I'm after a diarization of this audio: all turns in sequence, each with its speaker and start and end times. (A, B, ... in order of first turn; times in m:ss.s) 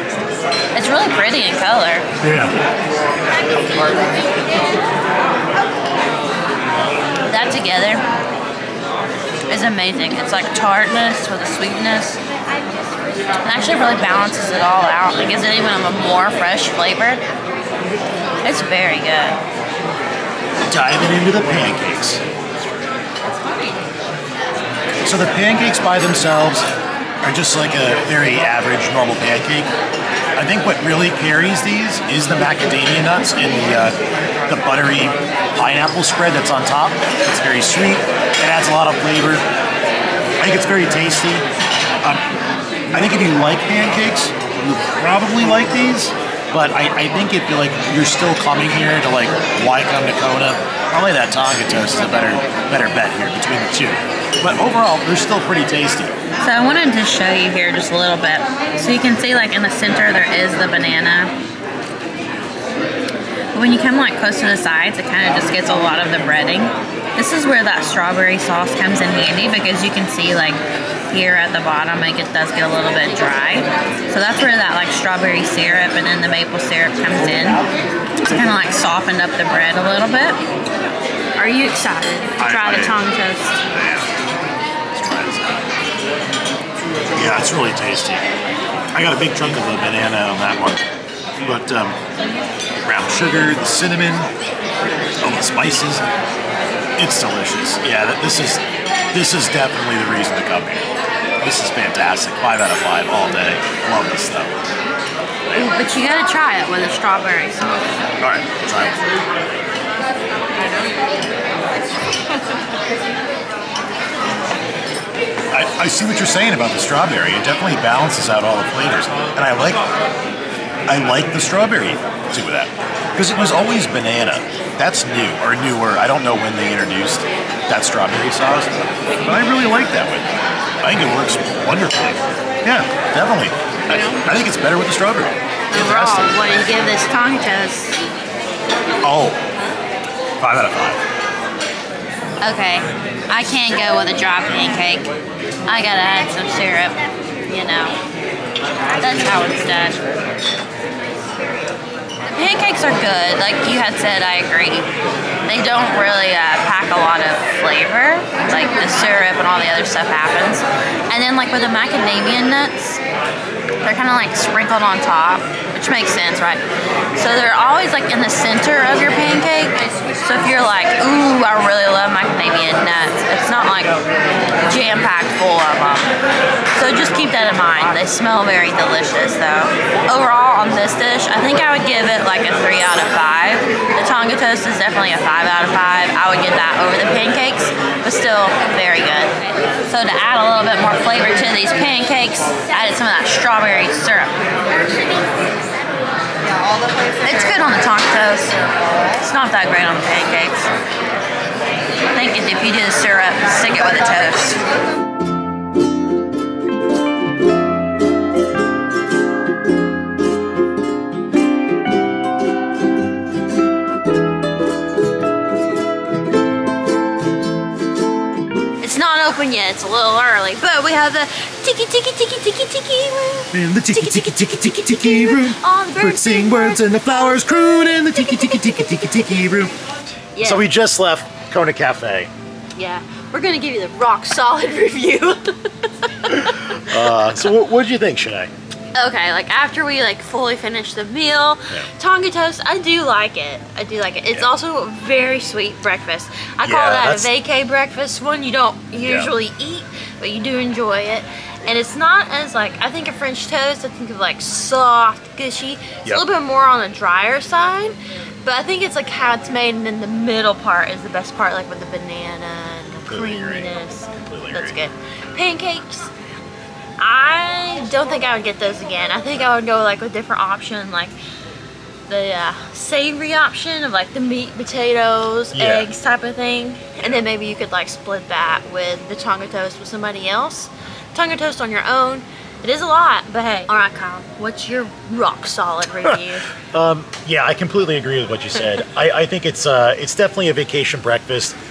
0:00.7-0:02.1 A
0:02.2-0:02.5 B
0:07.3-0:08.0 A
0:09.5-0:12.2 A
0:13.4-0:17.2 A
0:18.4-0:19.4 A
0:20.7-0:22.2 B
0:25.0-0:26.7 B
0:27.2-0:29.7 B
0:30.4-0:34.0 B
0:34.5-0:39.4 B
0:40.4-0:41.4 B
0:42.9-0:56.2 B
0:56.4-1:01.3 A
1:03.5-1:17.6 A
1:18.2-1:20.4 A
1:21.4-1:23.6 A
1:22.4-1:23.1 B
1:23.7-1:24.1 B
1:24.9-1:25.8 B
1:27.1-1:28.2 B
1:28.9-1:30.8 B
1:31.4-1:32.0 B
1:32.8-1:34.3 B
1:35.2-1:36.0 B
1:37.0-1:40.8 B
1:41.4-1:44.6 B
1:45.5-1:47.9 A
1:48.2-1:49.1 B
1:55.5-1:59.9 B
2:00.9-2:10.2 B
2:10.8-2:16.4 B
2:15.7-2:18.0 A
2:19.0-2:19.4 B
2:20.4-2:21.0 B
2:22.4-2:25.1 A
2:25.6-2:28.0 A
2:29.0-2:30.0 A
2:32.3-2:34.9 A
2:35.5-2:43.0 A
2:43.8-2:46.6 A
2:47.1-2:54.0 A
2:54.6-2:56.1 A
2:56.7-3:09.3 A
3:09.9-3:14.4 A
3:17.2-3:18.6 A
3:19.1-3:20.7 A
3:22.1-3:24.6 A
3:38.8-3:48.4 A
3:43.5-3:49.7 B
3:50.3-3:50.6 A
3:50.4-3:52.3 B
3:52.8-3:57.3 A
3:56.7-3:58.5 B
3:58.9-4:26.1 A
4:06.6-4:07.3 B
4:09.0-4:09.3 B
4:23.1-4:24.8 B
4:27.0-4:31.1 A
4:32.1-4:46.5 A
4:35.5-4:35.9 B
4:46.7-4:51.6 B